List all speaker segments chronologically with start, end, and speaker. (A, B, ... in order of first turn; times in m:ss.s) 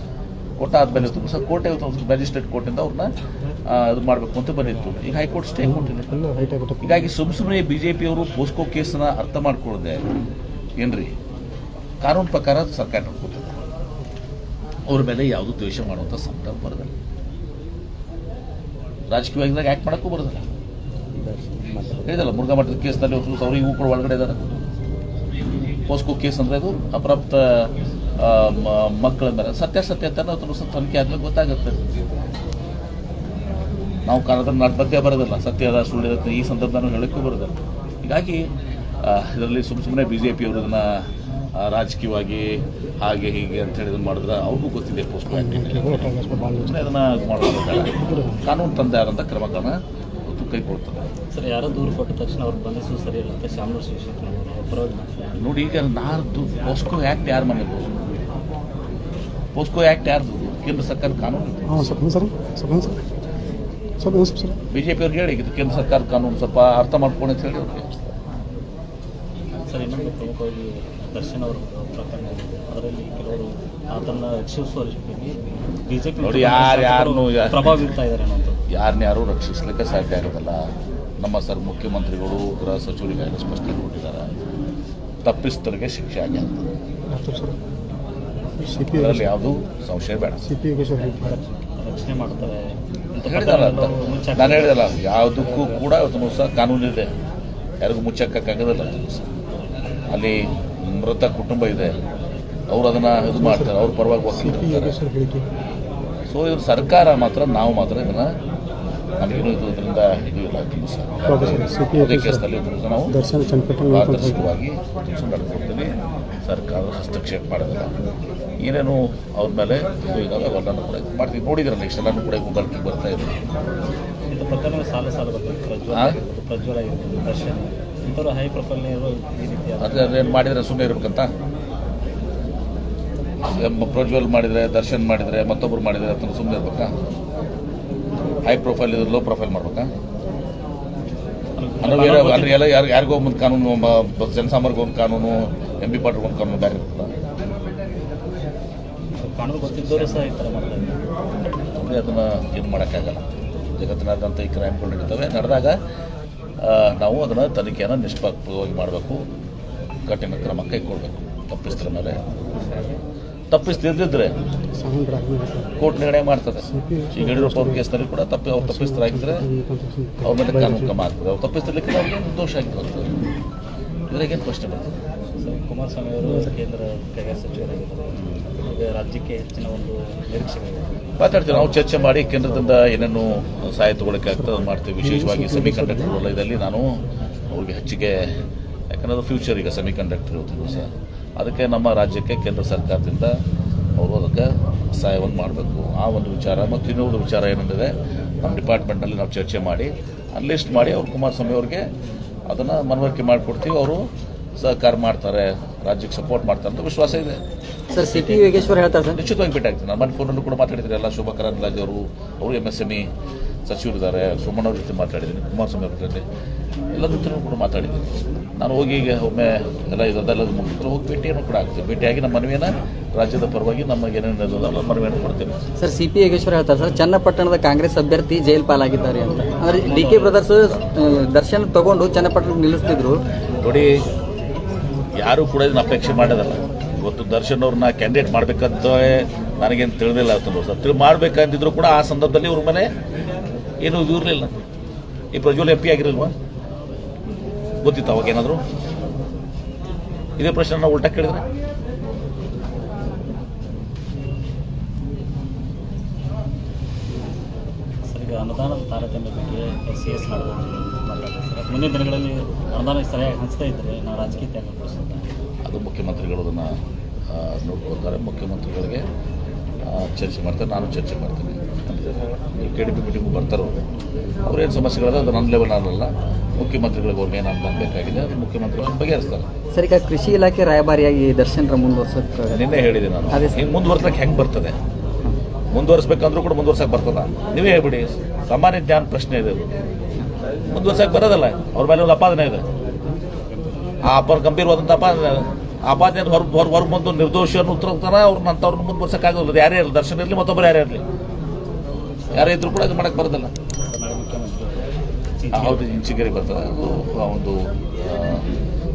0:00.6-0:03.1 A
0:03.6-0:06.2 A
0:05.6-0:07.0 B
0:06.8-0:10.0 A
0:10.8-0:11.1 A
0:12.0-0:13.5 A
0:14.9-0:16.9 A
0:19.1-0:20.4 A
0:21.2-0:22.0 C
0:22.0-0:24.4 A
0:25.9-0:31.8 A
0:34.0-0:38.4 A
0:39.0-0:51.1 A
0:45.3-0:47.0 B
0:47.7-0:48.4 B
0:51.3-0:55.4 C
0:55.4-0:57.9 A
0:59.5-1:02.0 A
1:01.6-1:03.0 B
1:04.0-1:04.6 B
1:04.7-1:07.9 A
1:09.6-1:18.6 C
1:16.2-1:17.9 A
1:18.7-1:24.3 A
1:25.2-1:26.7 A
1:27.1-1:27.6 B
1:28.6-1:29.3 B
1:28.9-1:30.4 A
1:30.4-1:31.2 B
1:31.2-1:35.9 C
1:33.2-1:37.1 A
1:37.8-1:39.2 A
1:40.1-1:42.0 A
1:42.7-1:45.0 A
1:43.3-1:43.8 B
1:44.3-1:45.5 B
1:46.3-1:48.3 A
1:49.2-1:53.2 A
1:51.2-1:52.4 B
1:53.1-1:54.5 B
1:53.9-1:55.9 A
1:56.4-1:57.9 A
1:58.6-2:03.4 A
2:04.3-2:10.3 C
2:05.9-2:06.2 A
2:09.8-2:11.3 A
2:13.4-2:16.9 A
2:18.4-2:19.9 A
2:21.6-2:22.6 C
2:21.8-2:27.1 A
2:29.2-2:31.0 C
2:31.7-2:33.2 A
2:33.8-2:35.8 A
2:36.6-2:39.2 A
2:40.1-2:42.2 A
2:43.5-2:44.3 A
2:44.7-2:45.7 B
2:45.8-2:49.4 A
2:46.7-2:47.9 B
2:48.6-2:51.0 B
2:50.2-2:53.1 A
2:54.1-2:55.0 A
2:55.4-3:01.8 C
2:56.2-2:56.5 B
3:01.2-3:08.4 A
3:05.0-3:06.2 B
3:08.9-3:13.3 A
3:14.0-3:21.9 A
3:22.5-3:24.0 A
3:24.6-3:27.4 A
3:27.9-3:29.2 D
3:29.1-3:33.1 A
3:33.6-3:36.2 A
3:36.9-3:45.7 A
3:45.8-3:53.2 D
3:49.4-3:50.8 C
3:53.6-3:53.9 A
3:55.2-4:02.9 A
4:03.8-4:04.6 A
4:05.3-4:06.3 A
4:07.8-4:08.6 A
4:10.4-4:11.4 A
4:18.0-4:25.3 C
4:25.6-4:29.0 A
4:29.8-4:33.8 A
4:34.4-4:39.5 A
4:39.7-4:42.7 D
4:42.5-4:44.8 A
4:43.3-4:43.6 D
4:45.7-4:49.7 A
4:50.6-4:52.6 A
4:53.5-4:53.9 C
4:54.0-5:01.0 A
5:02.3-5:03.5 A
5:03.8-5:05.9 C
5:05.5-5:08.5 A